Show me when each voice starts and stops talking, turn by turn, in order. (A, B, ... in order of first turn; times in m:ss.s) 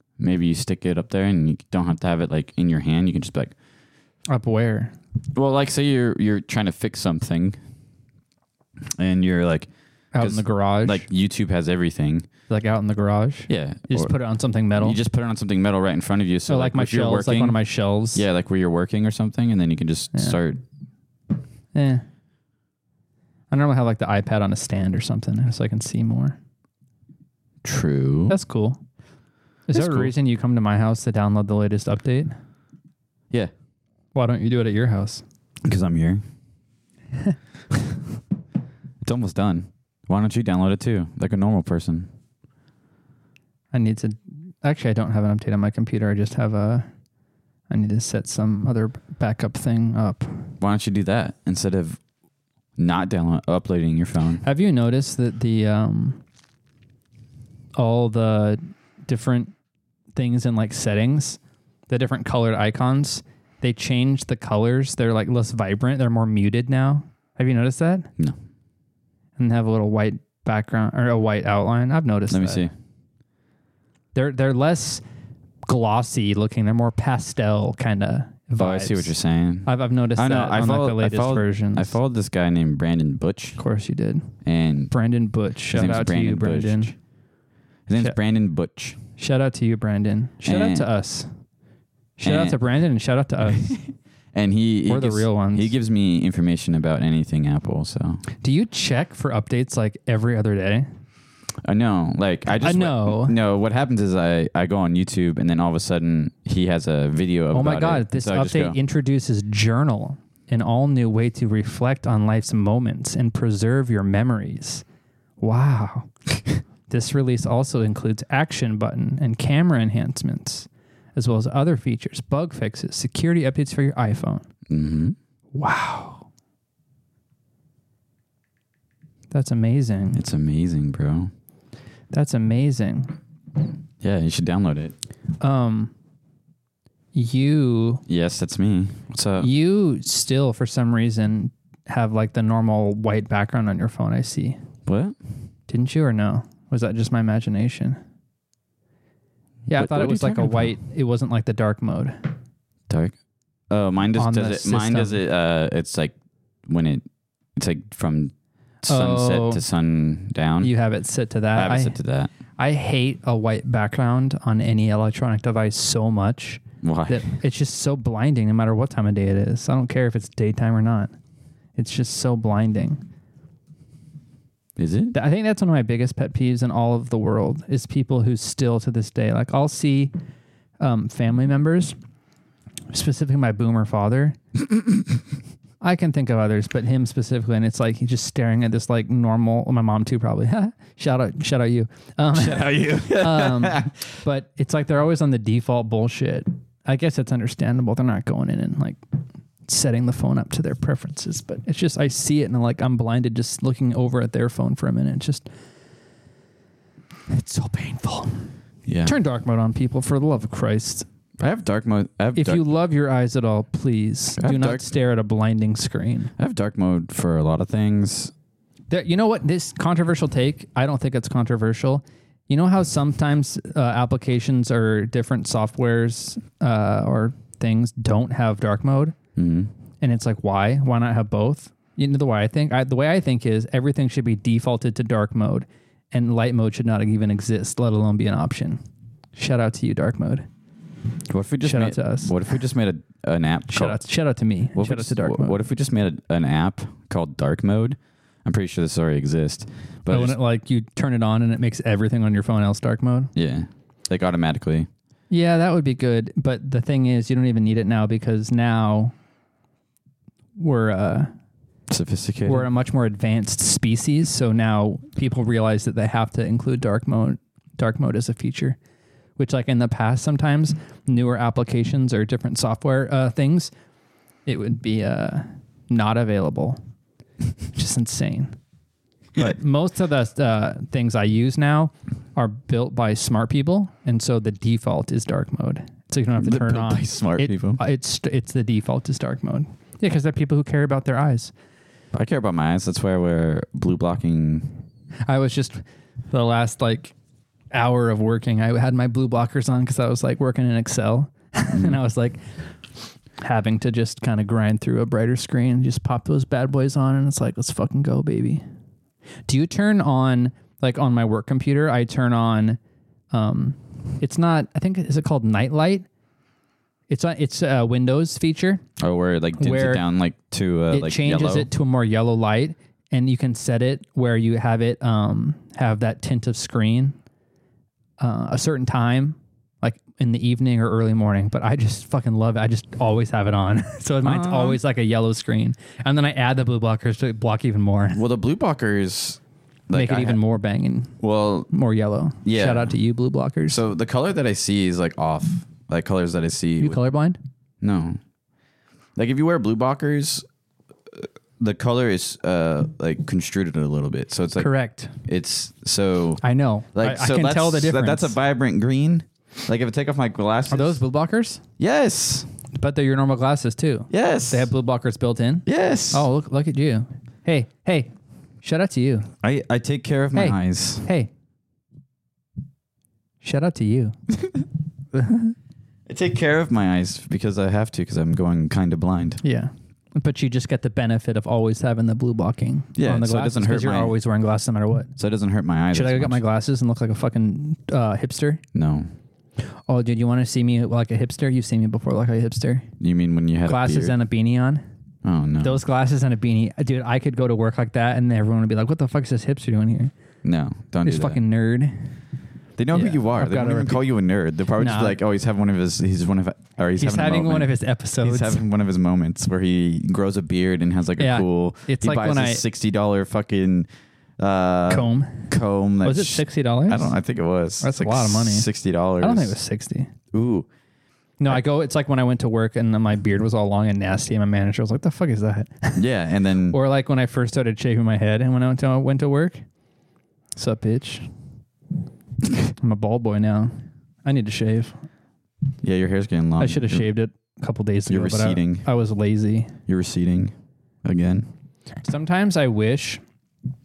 0:00.2-0:03.5 A
0:04.3-0:05.0 B
0:05.3-0:07.6 A
0:09.0-0:12.3 A
0:10.1-0:11.0 B
0:12.5-0:15.0 B
0:13.5-0:14.1 A
0:14.8-0:17.6 A
0:16.5-0:18.2 B
0:18.1-0:20.6 A
0:20.1-0:20.4 B
0:21.7-0:22.0 B
0:23.5-0:26.4 B
0:27.6-0:28.4 A
0:28.3-0:28.8 B
0:29.7-0:32.3 B
0:29.7-0:30.1 A
0:34.2-0:35.2 B
0:35.6-0:36.2 A
0:39.0-0:42.1 A
0:43.7-0:46.9 B
0:47.7-0:50.5 B
0:50.6-0:52.0 A
0:52.8-0:54.4 A
0:54.4-0:56.2 B
0:57.8-0:59.5 B
1:00.2-1:08.1 B
1:09.4-1:12.7 B
1:12.3-1:12.7 A
1:14.2-1:15.0 B
1:15.7-1:19.1 B
1:18.6-1:23.6 A
1:19.6-1:22.0 B
1:23.6-1:24.3 B
1:24.4-1:24.9 A
1:24.9-1:26.9 B
1:25.7-1:27.0 A
1:27.9-1:29.0 A
1:29.2-1:31.3 B
1:30.4-1:30.9 A
1:32.2-1:32.6 A
1:32.2-1:33.7 B
1:33.4-1:38.2 A
1:34.9-1:35.7 B
1:38.4-1:40.9 B
1:41.6-1:48.8 A
1:42.6-1:43.4 B
1:47.5-1:54.8 B
1:55.4-1:56.1 B
1:56.9-2:04.5 B
2:04.7-2:05.2 A
2:05.5-2:06.3 B
2:09.3-2:10.2 B
2:10.1-2:11.3 A
2:12.1-2:13.2 B
2:14.0-2:14.9 A
2:15.4-2:15.9 B
2:17.1-2:18.0 B
2:18.1-2:19.5 A
2:19.4-2:24.6 B
2:24.9-2:25.2 A
2:25.7-2:28.0 B
2:29.7-2:32.2 B
2:29.8-2:30.8 A
2:32.9-2:33.2 A
2:33.7-2:36.2 A
2:34.2-2:35.2 B
2:36.7-2:37.0 A
2:37.6-2:38.3 A
2:38.9-2:40.7 A
2:38.9-2:39.6 B
2:40.6-2:42.0 B
2:41.5-2:42.3 A
2:42.6-2:51.2 B
2:46.8-2:47.3 A
2:51.8-2:53.0 B
2:54.8-2:55.2 A
2:55.1-3:00.1 B
3:00.8-3:02.0 B
3:02.9-3:04.4 B
3:05.8-3:19.0 B
3:12.3-3:14.0 A
3:19.7-3:25.5 B
3:27.3-3:28.4 B
3:28.9-3:29.2 A
3:29.0-3:31.1 B
3:31.4-3:32.6 A
3:32.4-3:36.3 B
3:34.4-3:34.9 A
3:36.4-3:38.3 A
3:38.9-3:49.2 B
3:49.4-3:49.7 A
3:50.0-3:58.8 B
3:59.4-4:00.5 B
4:01.3-4:04.0 A
4:01.6-4:02.3 B
4:03.7-4:05.6 B
4:04.7-4:10.4 A
4:10.1-4:13.3 B
4:13.4-4:14.9 A
4:15.3-4:19.1 B
4:20.6-4:21.3 B
4:21.9-4:22.7 A
4:22.5-4:28.8 B
4:29.4-4:33.7 B
4:34.5-4:36.8 B
4:37.8-4:38.6 B
4:39.4-4:51.5 B
4:46.4-4:47.8 A
4:52.1-4:54.7 A
4:55.3-4:57.1 B
4:57.7-5:02.4 B
5:01.7-5:02.0 A
5:03.4-5:08.6 B
5:09.5-5:12.8 B
5:13.3-5:16.1 B
5:17.1-5:18.8 B
5:19.0-5:21.7 A
5:19.6-5:20.0 B
5:20.9-5:27.2 B
5:28.2-5:38.2 B
5:34.2-5:34.8 A
5:38.1-5:40.4 A
5:39.9-5:41.2 B
5:41.2-5:41.7 A
5:41.7-5:43.8 B
5:42.4-5:42.9 A
5:43.7-5:47.0 A
5:46.8-5:47.4 B
5:47.8-5:48.2 A
5:49.2-5:50.4 A
5:51.2-5:54.7 A
5:54.6-5:55.2 B
5:55.2-5:56.4 A
5:56.4-5:58.4 B
5:56.9-6:01.0 A
6:00.7-6:01.6 B
6:01.8-6:02.5 A
6:02.8-6:08.1 B
6:04.1-6:04.7 A
6:05.7-6:06.3 A
6:08.6-6:09.3 B
6:09.4-6:11.1 A
6:10.4-6:11.3 B
6:13.4-6:14.2 B
6:15.1-6:15.5 B
6:16.1-6:19.4 A
6:19.4-6:25.1 B
6:23.0-6:24.2 A
6:25.2-6:26.4 A
6:25.9-6:28.6 B
6:28.7-6:29.1 A
6:29.9-6:32.9 B
6:33.0-6:34.2 A
6:33.7-6:34.8 B
6:35.2-6:35.8 A
6:35.6-6:40.1 B
6:40.4-6:41.4 A
6:41.0-6:42.1 B
6:42.8-6:59.6 A
6:42.9-6:44.0 B
6:44.8-6:45.2 B
6:47.0-6:48.6 B
6:51.2-6:52.6 B
6:54.9-6:55.5 B
6:56.0-6:57.1 B
6:57.8-6:58.7 B
6:59.2-7:00.1 B
7:00.3-7:00.7 A
7:01.4-7:06.0 B
7:06.0-7:06.8 A
7:06.7-7:09.6 B
7:10.6-7:11.3 B
7:12.8-7:15.0 B
7:15.8-7:17.1 A
7:16.6-7:19.7 B
7:18.1-7:18.9 A
7:19.9-7:20.5 A
7:21.0-7:21.5 A
7:22.0-7:23.2 B